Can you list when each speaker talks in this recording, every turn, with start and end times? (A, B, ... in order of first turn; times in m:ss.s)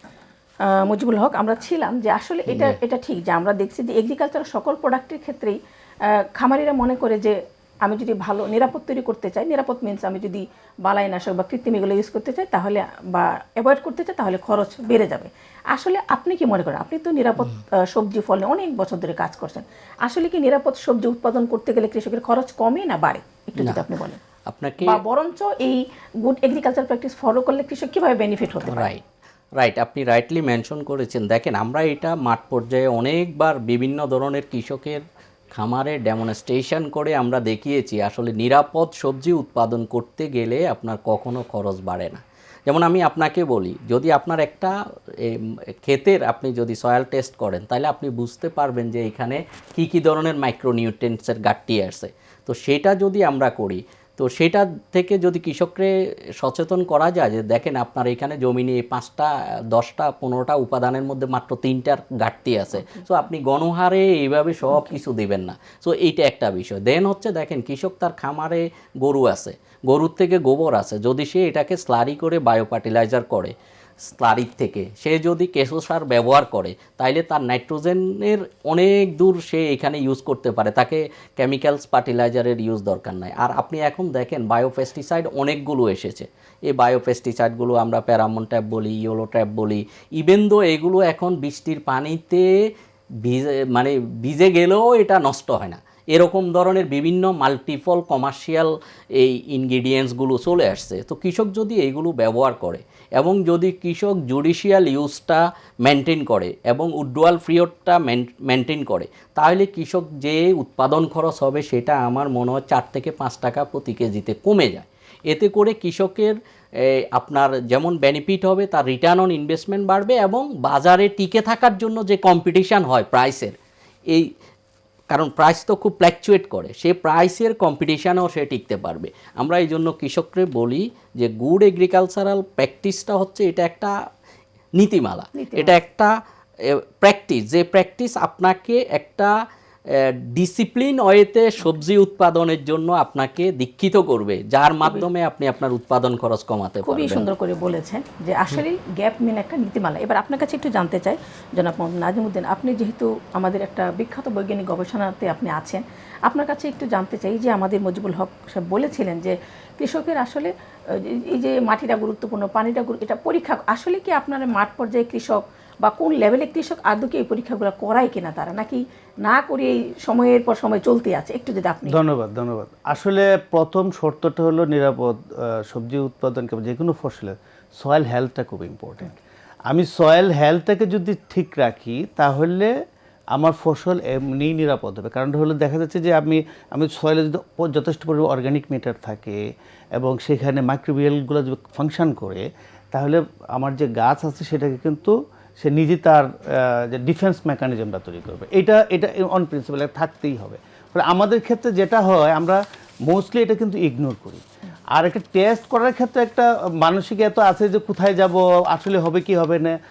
0:00.6-0:24.2 A
0:02.5-0:02.8 B
0:23.6-0:23.8 B
0:24.5-0:25.0 B
0:24.8-0:28.9 A
0:28.6-0:29.0 B
0:29.6-0:35.0 B
0:35.6-0:44.7 B
0:45.2-0:55.9 B
0:56.4-1:13.5 B
1:02.8-1:03.0 A
1:04.7-1:05.0 A
1:14.0-1:32.5 B
1:33.2-1:56.4 B
1:57.2-2:03.6 B
2:05.1-2:13.9 B
2:14.8-2:16.1 B
2:15.4-2:15.8 A
2:16.7-2:19.3 B
2:19.9-2:27.3 B
2:24.8-2:25.1 A
2:26.8-2:52.0 A
2:51.9-2:59.1 C
2:59.7-3:02.7 C
3:03.3-3:09.4 C
3:10.0-3:29.8 C